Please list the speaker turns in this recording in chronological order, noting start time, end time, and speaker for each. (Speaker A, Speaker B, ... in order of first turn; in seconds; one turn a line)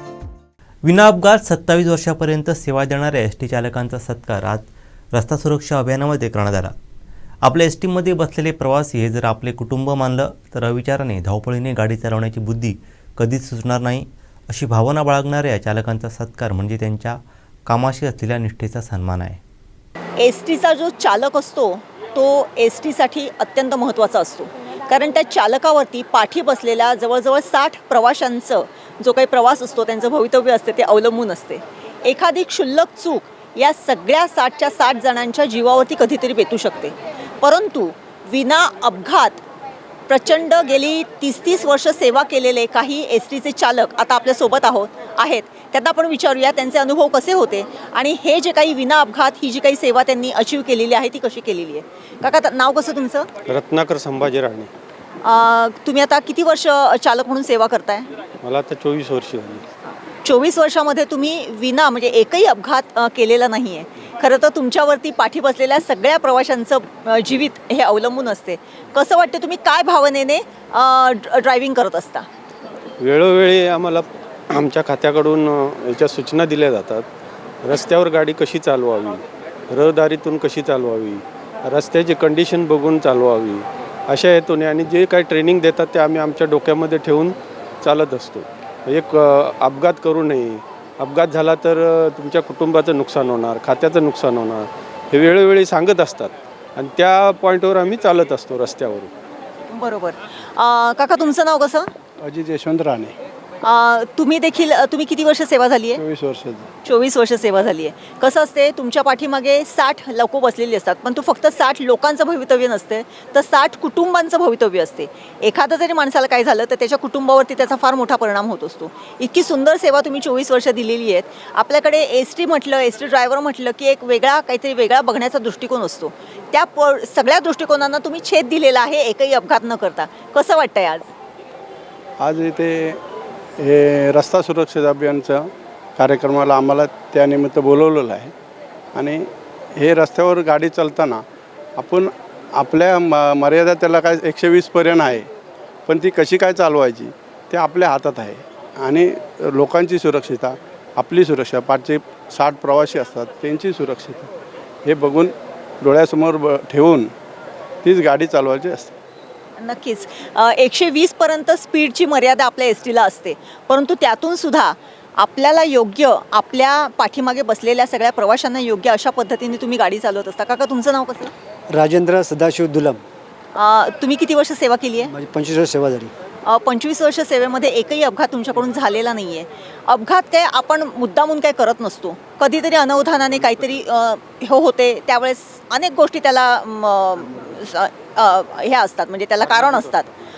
Speaker A: 0.8-6.7
Speaker A: 7.4-19.4
Speaker B: 20.2-39.4
Speaker B: 40.1-53.3
Speaker C: 53.5-54.7
Speaker B: 55.2-58.1
Speaker C: 58.4-59.6
Speaker B: 60.2-72.2
Speaker C: 73.0-77.0
Speaker C: 77.6-87.3
Speaker C: 87.8-99.1
Speaker B: 99.7-101.8
Speaker D: 102.2-103.1
Speaker B: 103.6-106.0
Speaker D: 106.0-106.7
Speaker B: 106.8-131.1
Speaker D: 132.2-133.0
Speaker D: 133.6-138.3
Speaker D: 138.9-141.2
Speaker D: 141.8-145.3
Speaker D: 145.9-154.3
Speaker D: 154.8-157.1
Speaker D: 157.8-158.9
Speaker B: 159.6-171.3
Speaker E: 171.7-173.0
Speaker B: 173.5-175.1
Speaker E: 175.0-176.1
Speaker B: 176.4-190.1